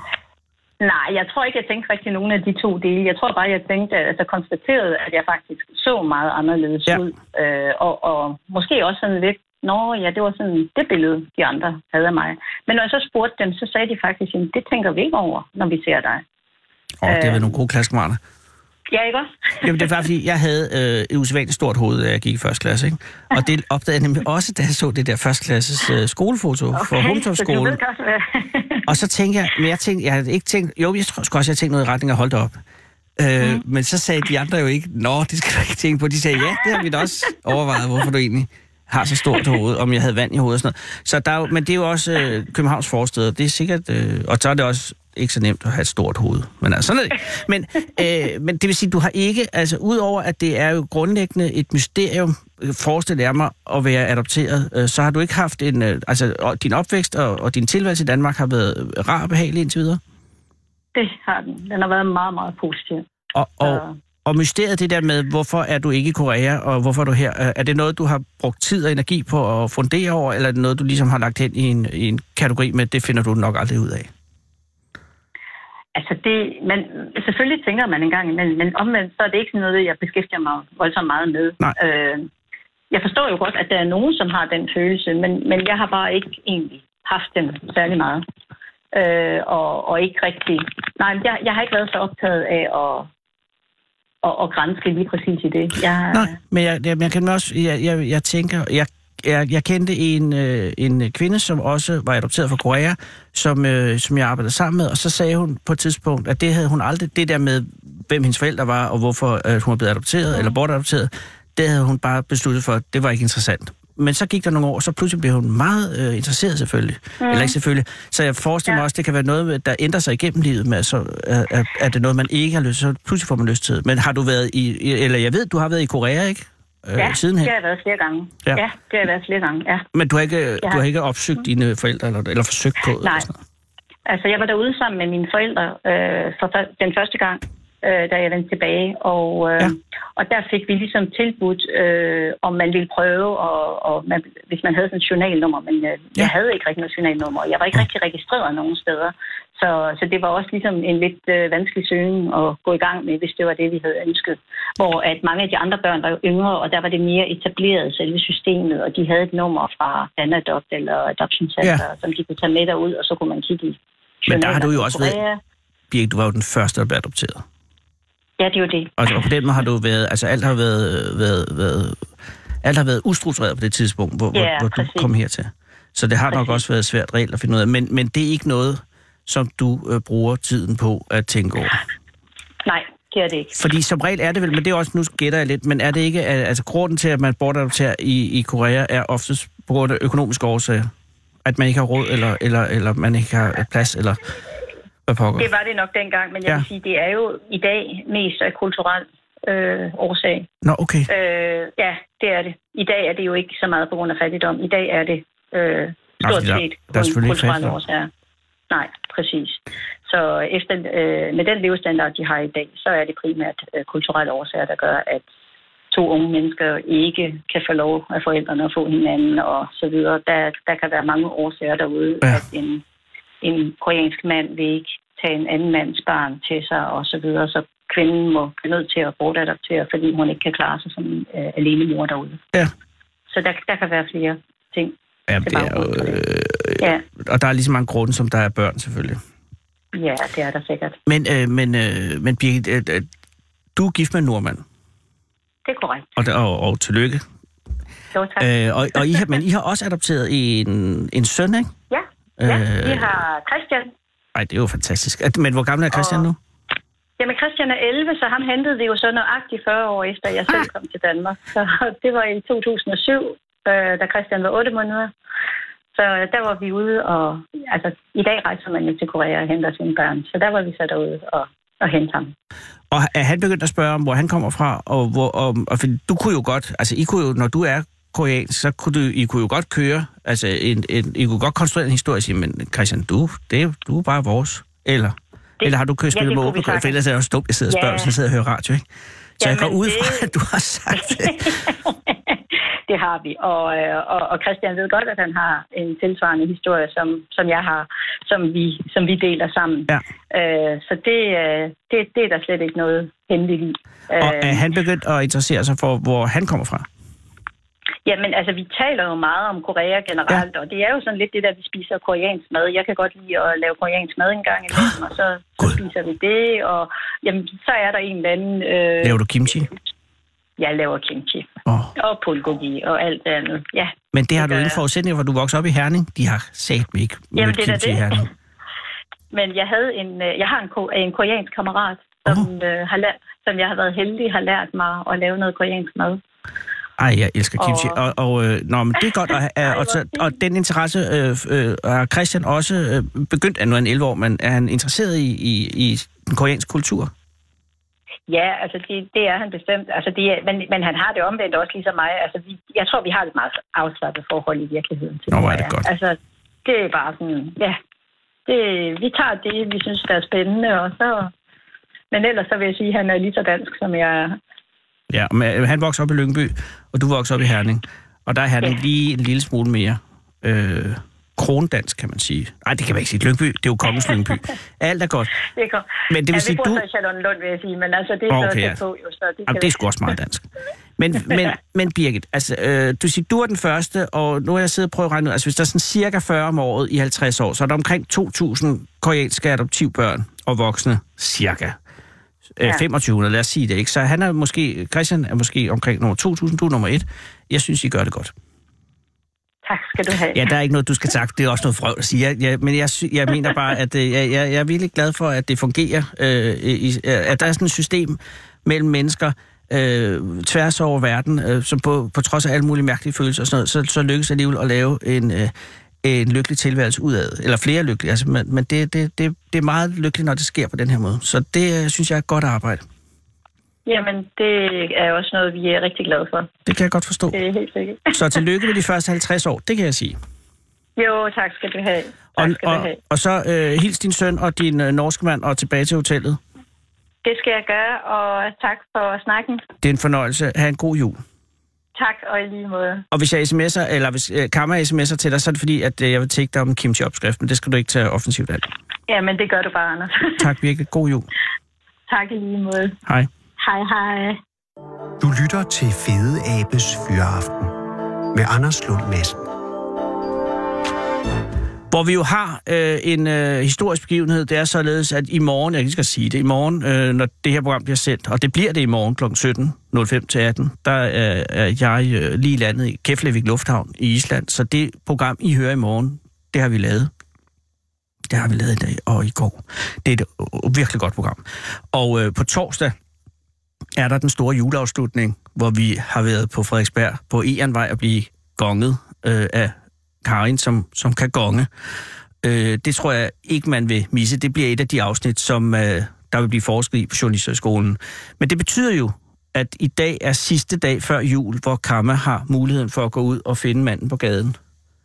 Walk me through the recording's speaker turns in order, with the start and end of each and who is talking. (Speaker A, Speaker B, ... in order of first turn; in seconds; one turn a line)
Speaker A: 0.8-16.2
Speaker B: 17.0-18.2
Speaker A: 17.1-17.4
Speaker A: 18.9-19.9
Speaker B: 19.6-27.8
Speaker A: 26.7-28.9
Speaker B: 28.9-32.5
Speaker B: 33.2-60.0
Speaker A: 60.9-63.0
Speaker B: 63.3-74.1
Speaker A: 63.6-64.0
Speaker A: 75.9-82.3
Speaker A: 82.9-88.2
Speaker A: 88.9-93.1
Speaker A: 94.2-96.3
Speaker B: 96.1-127.5
Speaker A: 117.2-117.5
Speaker A: 127.0-129.8
Speaker B: 129.9-133.3
Speaker A: 133.0-133.3
Speaker A: 134.1-165.4
Speaker B: 164.3-165.2
Speaker B: 165.9-167.4
Speaker A: 168.4-168.9
Speaker B: 169.0-172.0
Speaker B: 172.6-181.8
Speaker A: 174.3-175.1
Speaker A: 176.3-176.6
Speaker A: 182.6-183.5
Speaker B: 183.5-190.9
Speaker B: 191.4-194.2
Speaker B: 195.1-195.5
Speaker A: 195.4-200.5
Speaker B: 200.6-201.1
Speaker A: 201.1-208.1
Speaker B: 206.2-207.8
Speaker A: 208.7-215.2
Speaker A: 215.9-222.8
Speaker A: 223.4-232.4
Speaker A: 233.3-234.9
Speaker B: 235.3-239.2
Speaker A: 235.4-236.2
Speaker A: 239.9-241.0
Speaker B: 241.1-243.1
Speaker B: 243.8-244.6
Speaker A: 245.7-246.1
Speaker B: 246.2-247.2
Speaker A: 248.1-249.2
Speaker B: 248.4-251.7
Speaker A: 251.9-253.9
Speaker B: 252.4-253.2
Speaker B: 254.3-256.4
Speaker A: 255.9-256.3
Speaker A: 257.2-265.1
Speaker A: 265.9-272.3
Speaker B: 272.9-288.9
Speaker A: 285.6-287.0
Speaker A: 287.7-288.1
Speaker A: 289.4-290.3
Speaker B: 289.4-291.6
Speaker A: 290.9-304.6
Speaker B: 304.2-306.9
Speaker A: 308.1-319.2
Speaker B: 319.0-319.7
Speaker A: 320.6-324.8
Speaker B: 321.6-321.9
Speaker B: 324.1-328.3
Speaker A: 327.4-328.2
Speaker A: 329.3-336.2
Speaker B: 337.0-347.1
Speaker A: 337.6-338.0
Speaker A: 339.6-340.3
Speaker A: 348.3-357.8
Speaker B: 355.3-355.8
Speaker A: 358.5-361.3
Speaker A: 362.1-364.4
Speaker B: 365.1-375.3
Speaker A: 375.4-379.7
Speaker B: 376.1-376.8
Speaker B: 378.3-378.8
Speaker B: 379.5-380.5
Speaker B: 381.0-391.8
Speaker B: 392.6-398.3
Speaker A: 399.6-400.4
Speaker B: 400.3-422.8
Speaker A: 423.9-426.5
Speaker B: 426.6-427.4
Speaker A: 427.3-428.1
Speaker B: 428.1-430.2
Speaker A: 431.0-433.0
Speaker B: 432.4-436.4
Speaker A: 437.2-439.6
Speaker B: 439.8-441.2
Speaker A: 441.9-443.0
Speaker B: 443.1-448.7
Speaker A: 449.1-450.5
Speaker B: 450.4-451.3
Speaker A: 452.1-452.9
Speaker A: 453.6-454.4
Speaker C: 455.2-457.7
Speaker C: 458.3-459.4
Speaker B: 461.9-477.1
Speaker B: 478.3-482.9
Speaker B: 483.9-491.7
Speaker B: 492.4-504.6